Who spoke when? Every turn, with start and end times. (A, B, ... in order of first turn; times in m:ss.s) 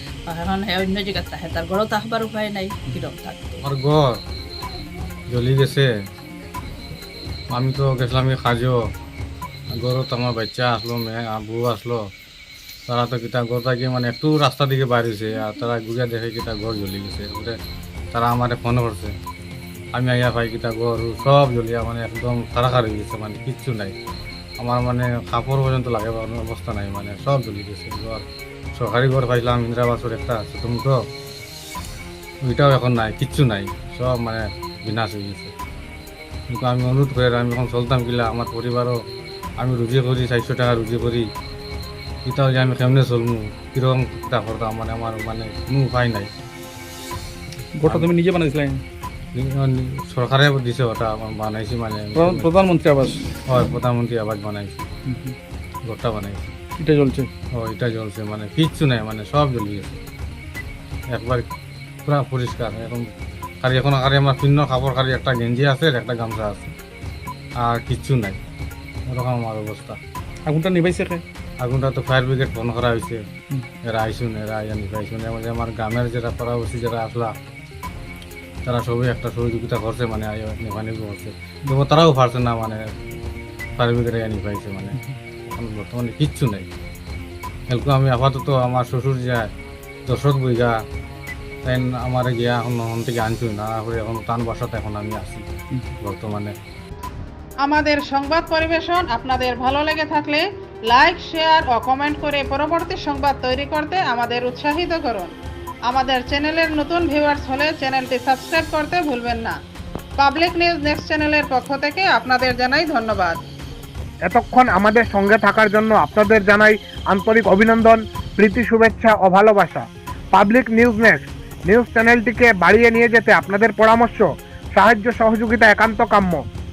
0:00.3-0:03.6 A
0:03.6-0:04.2 B
0:05.3-0:05.9 B
0:07.5-0:08.8 B
0:09.8-0:12.0 B
0:12.9-0:17.6 B
0:18.1-0:19.1 B
0:19.9-0:23.9 B
0:24.6-0:31.0 B
0:32.5-0:35.5 B
0:36.5-0:39.0 B
0:39.6-0:41.3 B
0:42.3-0:46.3 B
0:47.7-0:48.8 C
0:47.8-0:48.1 B
0:49.4-0:52.5 B
0:52.2-0:53.4 C
0:53.5-0:54.9 B
0:55.1-0:55.4 C
0:55.9-0:56.5 B
0:56.8-0:57.3 C
0:57.6-1:00.0 B
1:01.1-1:01.4 B
1:02.0-1:03.0 B
1:03.6-1:06.7 B
1:07.6-1:08.4 B
1:09.1-1:10.0 B
1:10.5-1:11.2 C
1:11.6-1:13.2 B
1:13.9-1:17.3 B
1:18.6-1:22.8 B
1:23.8-1:26.7 B
1:27.7-1:29.5 B
1:30.1-1:30.8 B
1:31.6-1:35.4 B
1:36.0-1:36.6 B
1:37.7-1:45.3 D
1:45.9-1:49.6 D
1:50.2-1:53.4 D
1:54.3-2:06.4 E